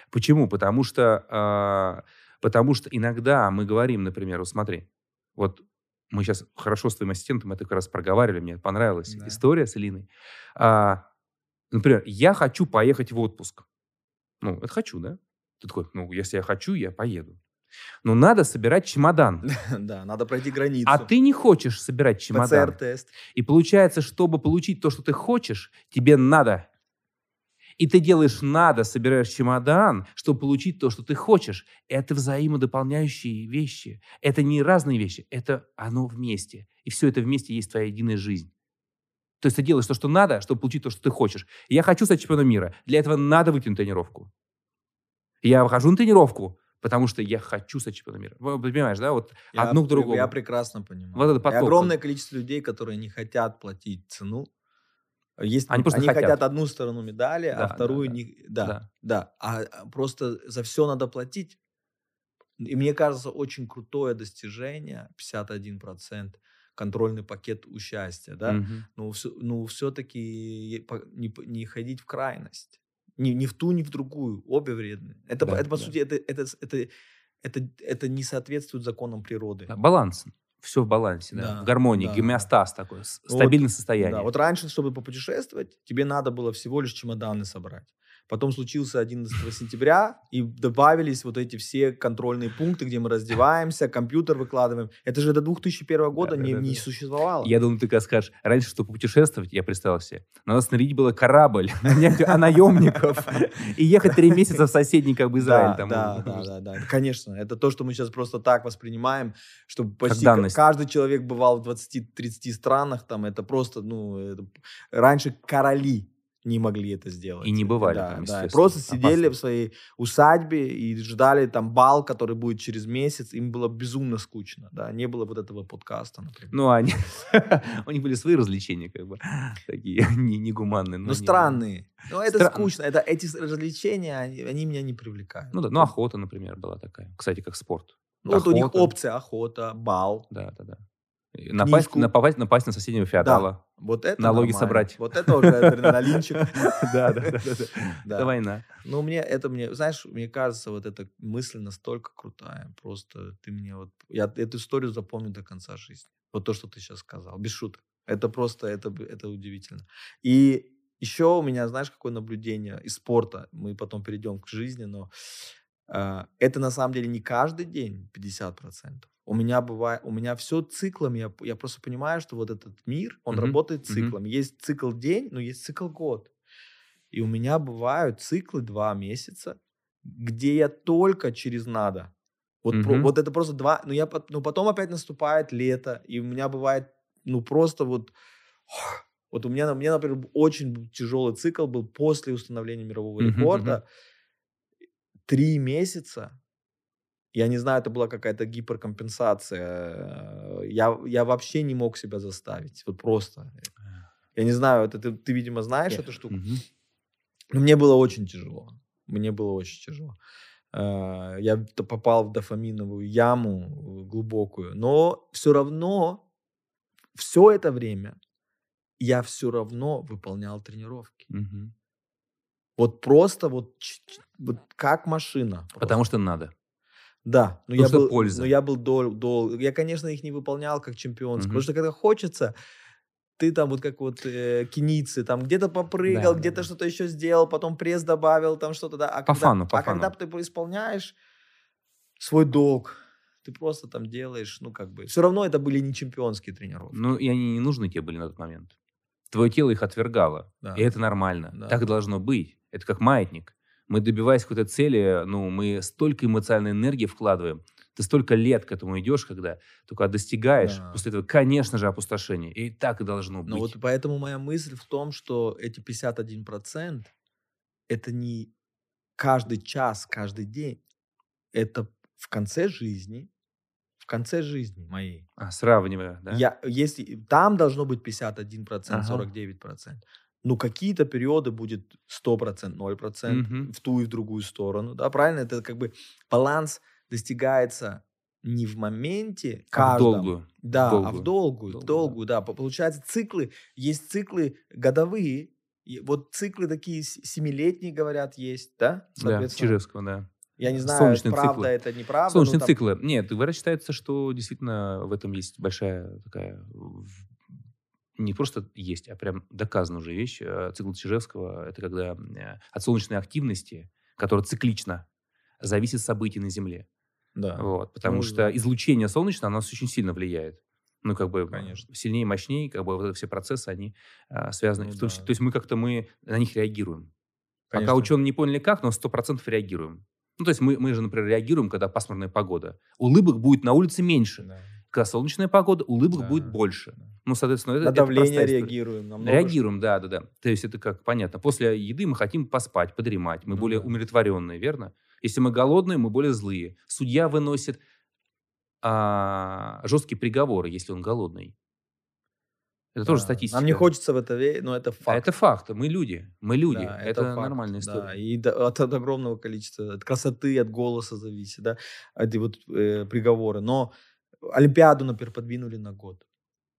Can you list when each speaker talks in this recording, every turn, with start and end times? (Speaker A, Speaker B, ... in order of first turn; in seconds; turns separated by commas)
Speaker A: 0.1-11.0, Speaker B: 9.1-9.4, Speaker A: 11.7-13.6, Speaker A: 14.4-17.4, Speaker A: 18.0-19.5, Speaker B: 19.5-21.1, Speaker A: 20.9-22.8, Speaker B: 22.3-23.1, Speaker A: 23.3-26.7, Speaker A: 27.8-38.5, Speaker A: 39.4-44.3, Speaker A: 45.4-50.3, Speaker B: 49.5-54.5, Speaker A: 51.1-52.0, Speaker B: 55.4-61.6, Speaker A: 55.7-56.4, Speaker A: 57.5-58.9, Speaker B: 62.6-76.9, Speaker A: 68.5-68.9, Speaker A: 75.4-75.9, Speaker B: 77.4-79.7, Speaker A: 79.7-84.3, Speaker B: 81.3-82.5, Speaker B: 83.3-97.5, Speaker A: 96.2-96.8, Speaker A: 97.4-106.5, Speaker B: 102.3-103.0, Speaker B: 104.2-104.6, Speaker B: 105.4-126.5, Speaker A: 110.1-110.6, Speaker A: 117.4-119.3, Speaker A: 126.5-131.6, Speaker B: 131.1-135.9, Speaker A: 132.2-132.7, Speaker A: 135.5-138.9, Speaker B: 138.2-140.3, Speaker A: 140.3-140.8, Speaker A: 141.3-143.6, Speaker B: 141.6-142.1, Speaker B: 143.2-147.3, Speaker A: 144.2-148.7, Speaker B: 148.0-165.1, Speaker B: 165.9-176.3, Speaker A: 173.3-174.2, Speaker B: 177.1-182.1, Speaker B: 182.6-188.1, Speaker A: 182.7-183.1, Speaker B: 188.7-193.8, Speaker A: 193.2-193.8, Speaker B: 195.3-196.4, Speaker B: 197.3-203.7, Speaker B: 204.4-206.4, Speaker A: 206.3-206.6, Speaker B: 207.5-210.2, Speaker B: 210.7-216.2, Speaker B: 217.2-218.2, Speaker B: 219.0-221.2, Speaker A: 221.3-221.7, Speaker B: 222.8-226.0, Speaker A: 225.8-226.5, Speaker B: 227.2-232.5, Speaker A: 227.8-228.5, Speaker A: 231.4-231.7, Speaker B: 233.4-241.2, Speaker A: 236.1-236.7, Speaker A: 239.3-240.1, Speaker B: 242.2-247.1, Speaker A: 246.9-248.7, Speaker A: 249.3-263.7, Speaker B: 250.6-250.9, Speaker B: 251.5-251.8, Speaker B: 260.6-261.0, Speaker B: 263.5-267.1, Speaker B: 267.9-268.5, Speaker B: 269.2-270.8, Speaker B: 271.5-273.3, Speaker B: 274.0-275.3, Speaker A: 275.4-276.4, Speaker B: 276.3-299.8, Speaker A: 278.9-279.3, Speaker A: 283.3-283.7, Speaker A: 289.7-292.2, Speaker A: 299.2-301.7, Speaker B: 300.6-302.8, Speaker A: 302.3-307.3, Speaker A: 308.2-315.1, Speaker A: 315.6-316.9, Speaker B: 317.4-318.6, Speaker A: 317.6-327.1, Speaker B: 321.5-321.8, Speaker B: 324.8-325.3, Speaker B: 327.7-328.1, Speaker A: 327.7-347.8, Speaker B: 334.4-334.7, Speaker B: 336.1-336.6, Speaker B: 337.8-339.6, Speaker B: 343.5-343.9, Speaker A: 348.8-351.5, Speaker A: 352.9-353.9, Speaker B: 353.1-355.3, Speaker A: 355.1-358.1, Speaker B: 356.7-363.9, Speaker B: 364.4-366.2